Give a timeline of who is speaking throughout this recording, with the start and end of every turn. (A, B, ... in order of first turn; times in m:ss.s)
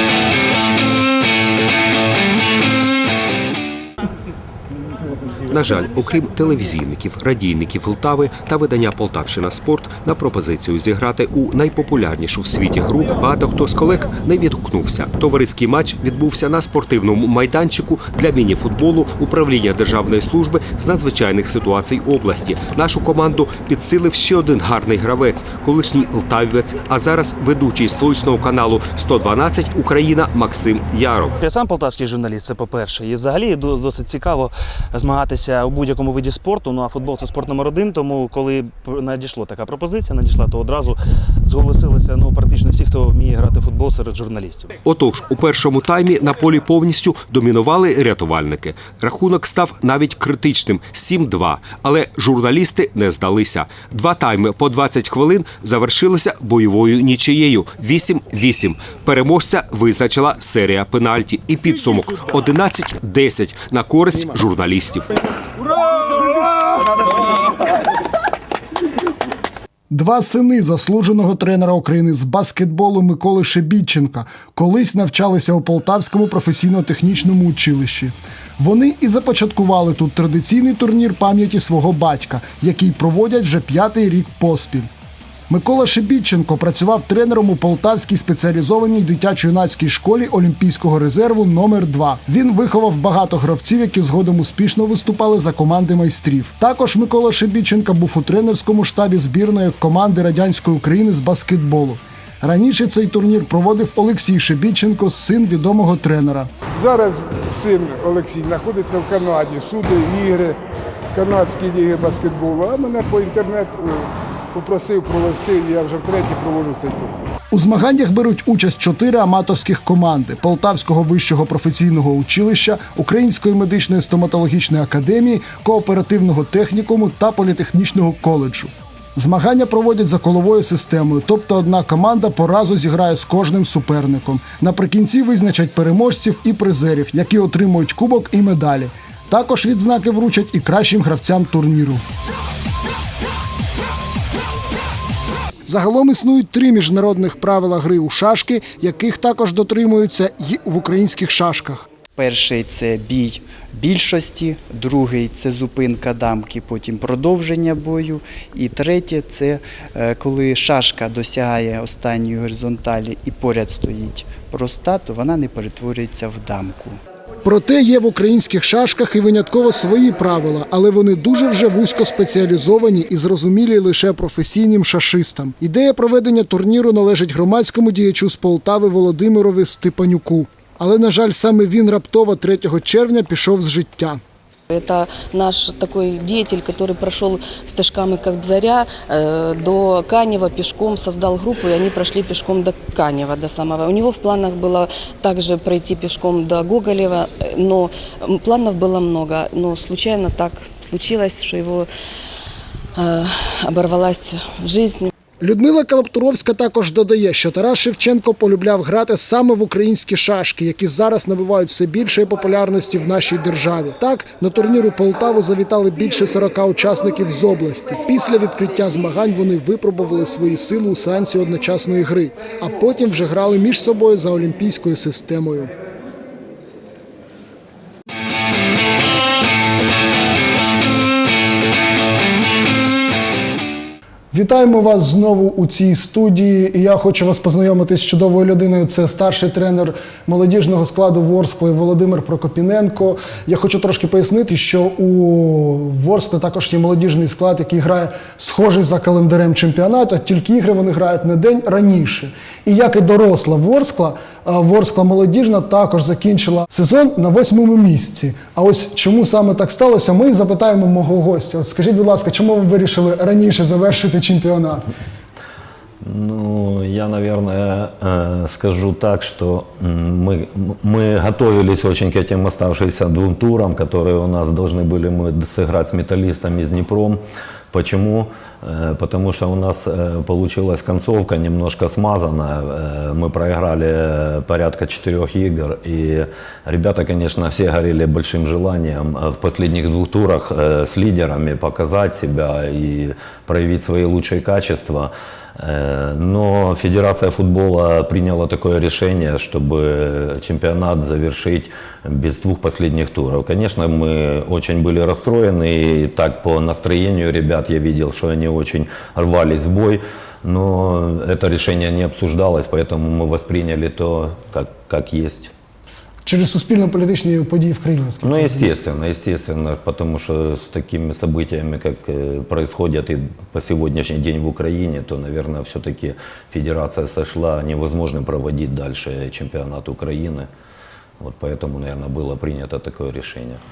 0:05.5-0:31.4 A
0:31.4-0:44.7 B
0:44.8-1:05.1 A
1:09.9-1:24.9 C
1:25.5-1:46.5 C
1:46.8-1:50.6 D
1:51.1-1:57.2 D
1:57.5-2:22.0 C
2:25.7-2:31.9 C
2:32.2-2:47.0 E
2:47.4-3:04.2 C
3:04.7-3:21.9 F
3:23.0-3:25.1 F
3:25.4-3:45.7 C
3:54.3-4:24.9 C
4:26.0-4:37.2 G
4:37.7-5:15.5 G
5:16.2-5:18.7 C
5:18.2-5:30.5 G
5:31.2-5:33.6 G